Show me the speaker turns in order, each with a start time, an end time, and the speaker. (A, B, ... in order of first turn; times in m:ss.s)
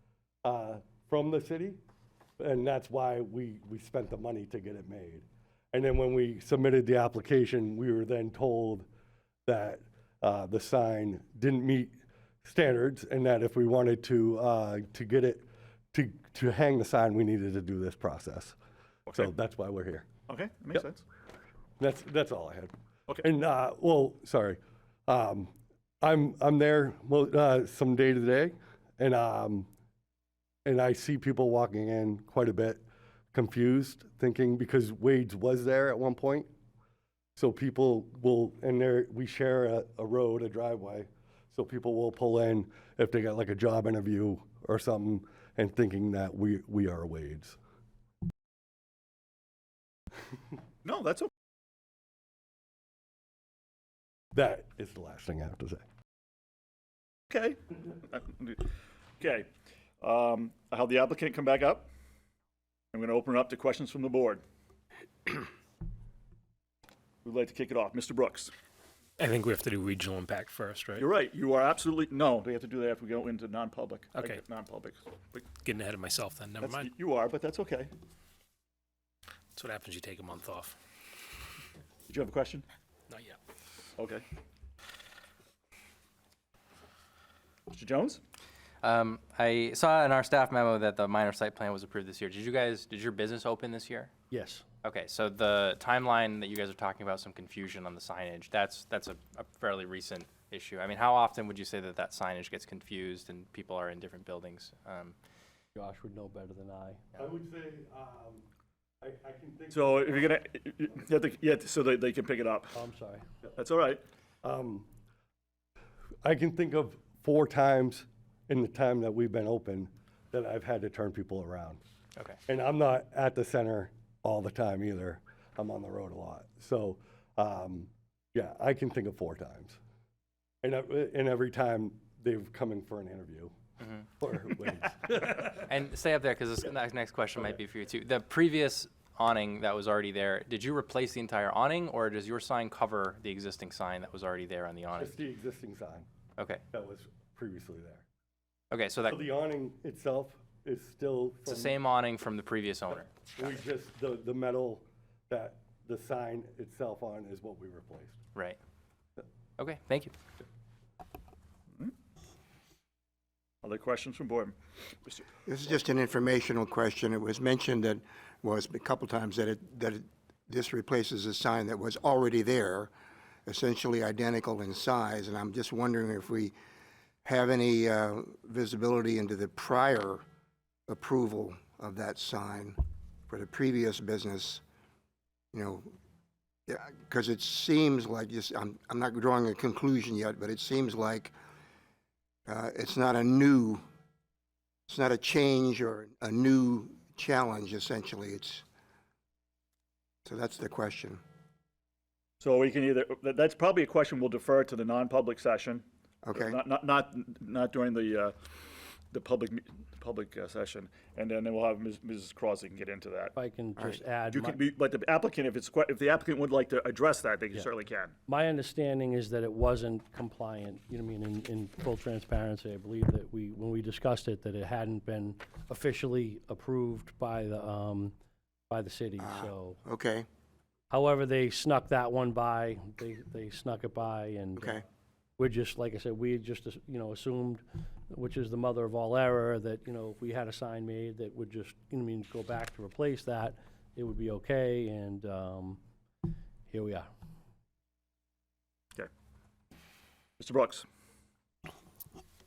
0:00.4-0:01.8 A
0:02.4-0:08.8 A
0:09.4-0:18.6 A
0:19.2-0:20.1 A
0:20.3-0:21.0 B
0:21.8-0:29.7 A
0:30.6-0:32.8 A
0:33.3-0:36.5 A
0:37.4-0:47.6 A
0:50.8-0:51.3 B
0:54.3-0:55.8 A
0:57.3-0:59.5 B
1:00.0-1:01.9 B
1:02.9-1:04.4 B
1:07.2-1:08.5 B
1:09.2-1:11.1 C
1:11.0-1:15.5 B
1:14.1-1:14.4 C
1:15.6-1:16.9 C
1:16.6-1:17.9 B
1:19.5-1:20.7 C
1:22.1-1:22.6 B
1:23.1-1:23.4 C
1:24.0-1:24.2 B
1:27.7-1:28.2 B
1:28.8-1:34.1 D
1:34.3-1:34.6 E
1:34.8-1:45.2 D
1:45.7-1:47.1 E
1:47.1-1:48.4 A
1:49.0-1:50.4 A
1:49.7-1:52.7 B
1:52.7-1:53.2 E
1:53.6-1:54.0 B
1:54.4-1:54.9 A
1:56.2-2:01.8 A
2:02.5-2:09.8 A
2:10.6-2:13.5 A
2:14.2-2:15.6 A
2:15.1-2:25.2 D
2:25.0-2:26.1 A
2:26.4-2:26.6 D
2:26.7-2:28.0 A
2:28.7-2:29.2 D
2:29.1-2:31.8 A
2:31.5-2:33.5 D
2:33.4-2:38.2 A
2:39.6-2:40.1 D
2:43.6-2:45.2 B
2:45.4-2:52.9 F
2:53.4-2:56.5 F
2:57.2-3:00.2 F
3:00.9-3:02.8 F
3:03.3-3:04.6 F
3:05.5-3:05.9 F
3:06.7-3:11.3 F
3:12.5-3:13.8 F
3:14.9-3:18.6 F
3:20.2-3:21.2 F
3:22.4-3:28.5 B
3:26.2-3:26.6 F
3:29.1-3:33.3 B
3:33.3-3:34.6 E
3:34.2-3:38.1 B
3:38.3-3:48.1 E
3:48.7-3:49.8 E
3:49.2-3:50.3 F
3:50.9-3:54.8 E
3:54.6-3:54.8 F
3:55.4-4:05.8 E
4:06.7-4:07.1 E
4:10.4-4:10.8 B